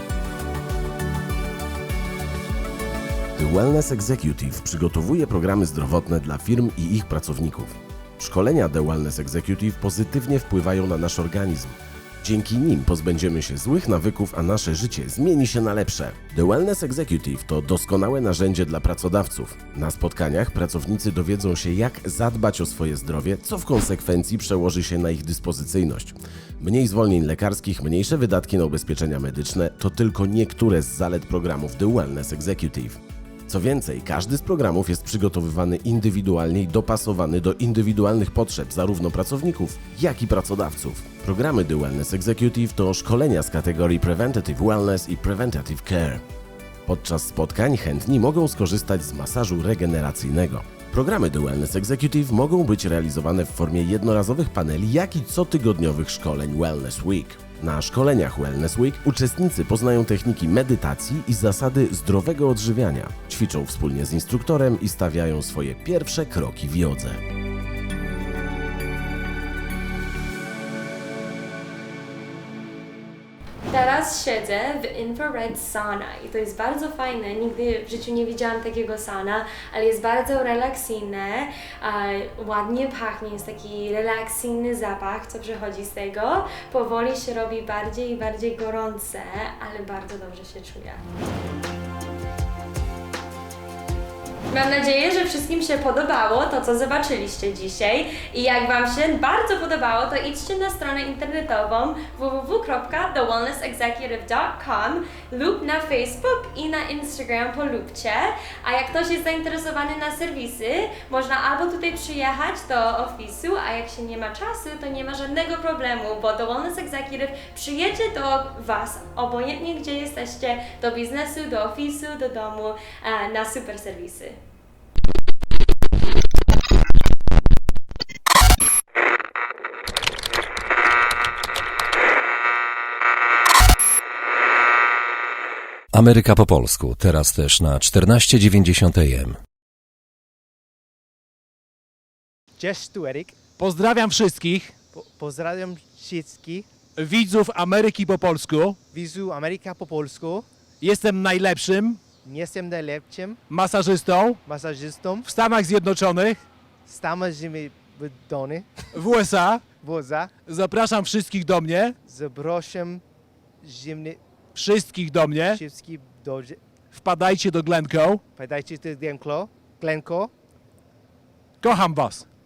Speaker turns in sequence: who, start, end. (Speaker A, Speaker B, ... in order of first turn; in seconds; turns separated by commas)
Speaker A: 3.4-46.2, Speaker A: 46.9-67.2, Speaker B: 73.7-91.0, Speaker B: 94.5-124.4, Speaker C: 135.9-139.4, Speaker D: 142.6-143.3, Speaker E: 143.6-144.7, Speaker D: 144.9-146.7, Speaker E: 147.0-148.8, Speaker D: 148.9-150.4, Speaker E: 150.8-152.0, Speaker D: 152.2-153.4, Speaker E: 153.5-154.4, Speaker D: 154.4-155.3, Speaker E: 155.2-156.4, Speaker D: 156.8-158.7, Speaker E: 158.9-159.6, Speaker D: 159.8-160.3, Speaker E: 160.4-161.9, Speaker D: 162.0-163.0, Speaker D: 163.6-164.2, Speaker E: 164.5-165.6, Speaker D: 165.5-166.6, Speaker E: 166.9-168.2, Speaker D: 168.3-170.3, Speaker E: 171.6-172.2